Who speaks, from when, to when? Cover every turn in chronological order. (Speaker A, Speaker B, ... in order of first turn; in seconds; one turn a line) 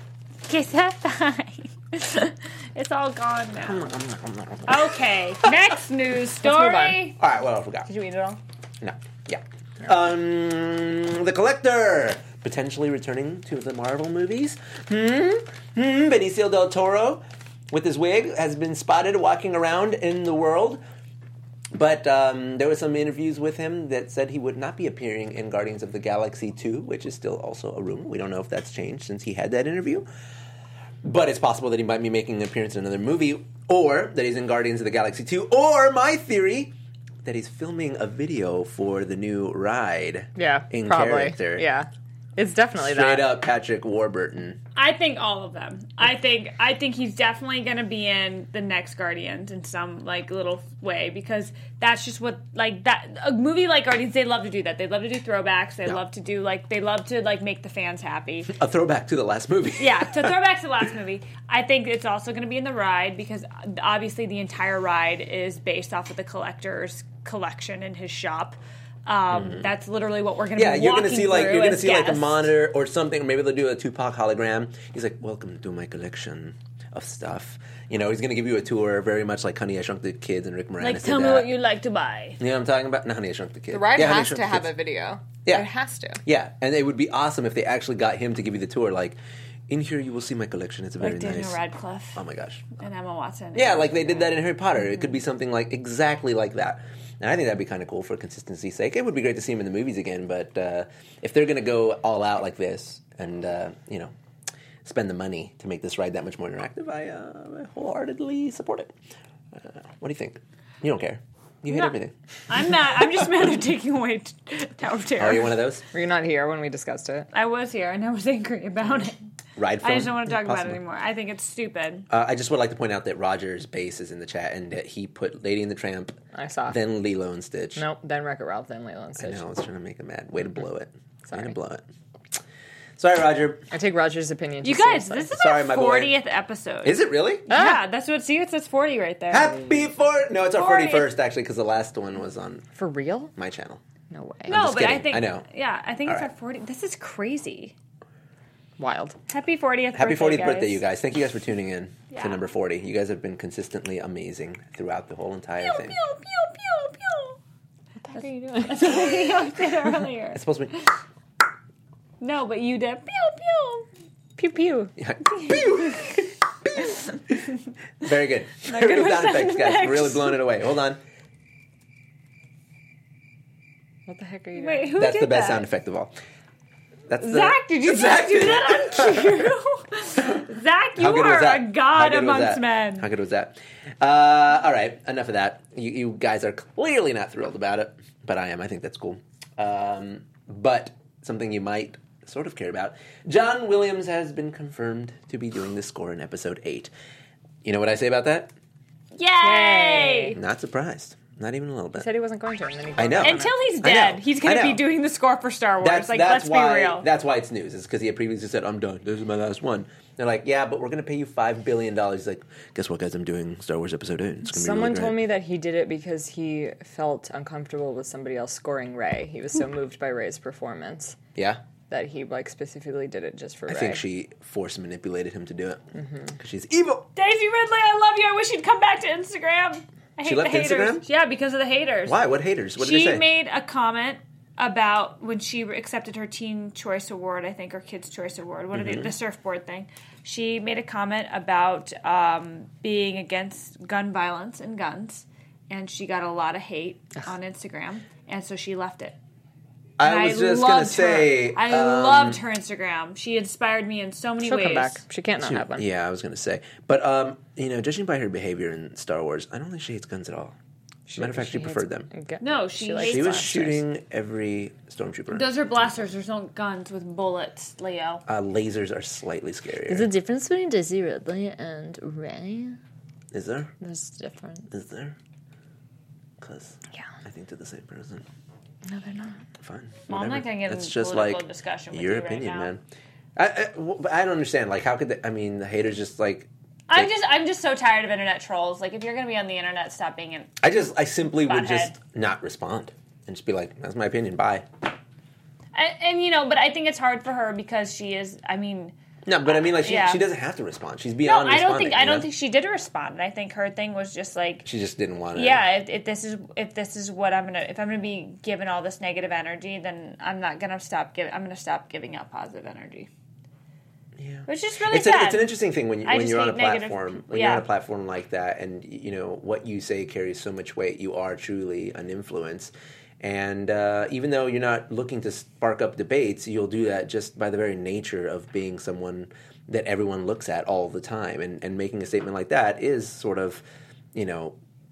Speaker A: 0.5-3.9
Speaker B: 3.6-5.5
Speaker A: 4.7-7.2
Speaker C: 6.4-7.0
Speaker B: 7.2-7.9
Speaker C: 8.0-8.4
Speaker B: 8.8-20.8
Speaker B: 21.7-30.1
Speaker B: 31.0-36.7
Speaker B: 37.2-41.6
Speaker C: 40.4-43.2
Speaker B: 42.8-44.6
Speaker A: 44.8-58.5
Speaker B: 58.5-60.3
Speaker A: 59.8-72.5
Speaker B: 69.3-69.7
Speaker B: 70.5-81.5
Speaker A: 80.8-82.4
Speaker B: 82.4-84.7
Speaker C: 83.7-86.2
Speaker B: 86.2-89.2
Speaker B: 89.7-91.6
Speaker A: 91.0-92.2
Speaker B: 92.1-92.7
Speaker A: 92.8-94.3
Speaker B: 93.5-104.1
Speaker B: 104.8-108.9
Speaker B: 109.5-112.1
Speaker A: 111.7-111.9
Speaker A: 112.5-115.5
Speaker B: 115.2-115.8
Speaker C: 115.9-117.3
Speaker A: 117.3-119.2
Speaker B: 119.6-120.8
Speaker A: 119.8-122.1
Speaker B: 122.1-127.8
Speaker C: 126.3-126.8
Speaker C: 127.8-129.4
Speaker B: 129.2-131.8
Speaker B: 133.0-133.7
Speaker C: 133.7-135.3
Speaker A: 134.6-139.5
Speaker B: 135.3-136.1
Speaker B: 136.8-137.5
Speaker C: 137.5-137.8
Speaker B: 139.3-142.7
Speaker A: 140.6-141.1
Speaker C: 142.7-143.3
Speaker B: 143.3-143.8
Speaker C: 144.1-144.6
Speaker B: 144.5-145.4
Speaker A: 144.5-147.7
Speaker C: 148.8-149.2
Speaker A: 149.3-150.8
Speaker B: 149.9-156.0
Speaker A: 152.1-152.4
Speaker A: 155.6-157.4
Speaker C: 158.0-159.0
Speaker A: 158.1-160.8
Speaker B: 160.3-160.7
Speaker A: 162.2-163.9
Speaker C: 164.4-164.9
Speaker B: 165.0-167.4
Speaker A: 165.3-166.2
Speaker B: 168.0-171.0
Speaker A: 168.7-170.4
Speaker C: 174.1-175.0
Speaker A: 174.6-175.7
Speaker B: 175.0-176.1
Speaker B: 177.1-179.5
Speaker A: 177.2-183.1
Speaker B: 181.0-196.9
Speaker B: 197.6-198.5
Speaker A: 199.1-200.4
Speaker C: 199.4-200.4
Speaker B: 200.3-202.1
Speaker C: 201.9-203.6
Speaker B: 203.0-204.8
Speaker A: 203.2-207.0
Speaker B: 205.8-215.2
Speaker C: 214.4-221.2
Speaker B: 221.3-221.6
Speaker C: 221.9-224.0
Speaker B: 223.7-225.8
Speaker C: 225.9-226.3
Speaker B: 226.3-227.1
Speaker A: 227.2-232.2
Speaker B: 230.2-231.0
Speaker B: 232.1-233.2
Speaker A: 232.8-249.2
Speaker B: 238.7-239.1
Speaker B: 250.0-252.4
Speaker A: 250.0-255.0
Speaker C: 254.4-255.8
Speaker B: 255.4-260.5
Speaker C: 261.1-263.8
Speaker B: 261.1-262.1
Speaker A: 262.4-263.5
Speaker B: 263.0-265.6
Speaker A: 265.3-268.2
Speaker B: 268.3-270.1
Speaker C: 269.9-272.8
Speaker B: 273.3-273.7
Speaker C: 273.8-274.7
Speaker B: 274.7-275.1
Speaker B: 276.4-278.2
Speaker C: 278.9-279.4
Speaker B: 279.6-282.8
Speaker A: 280.1-282.7
Speaker B: 283.4-287.1
Speaker A: 286.9-290.6
Speaker B: 290.6-294.6
Speaker A: 291.4-291.9
Speaker A: 295.7-298.9
Speaker B: 299.2-302.3
Speaker A: 299.4-300.2
Speaker A: 301.2-304.6
Speaker B: 304.6-305.6
Speaker A: 305.3-313.1
Speaker B: 314.2-333.6
Speaker A: 314.5-315.5
Speaker A: 316.0-317.6
Speaker B: 334.1-334.6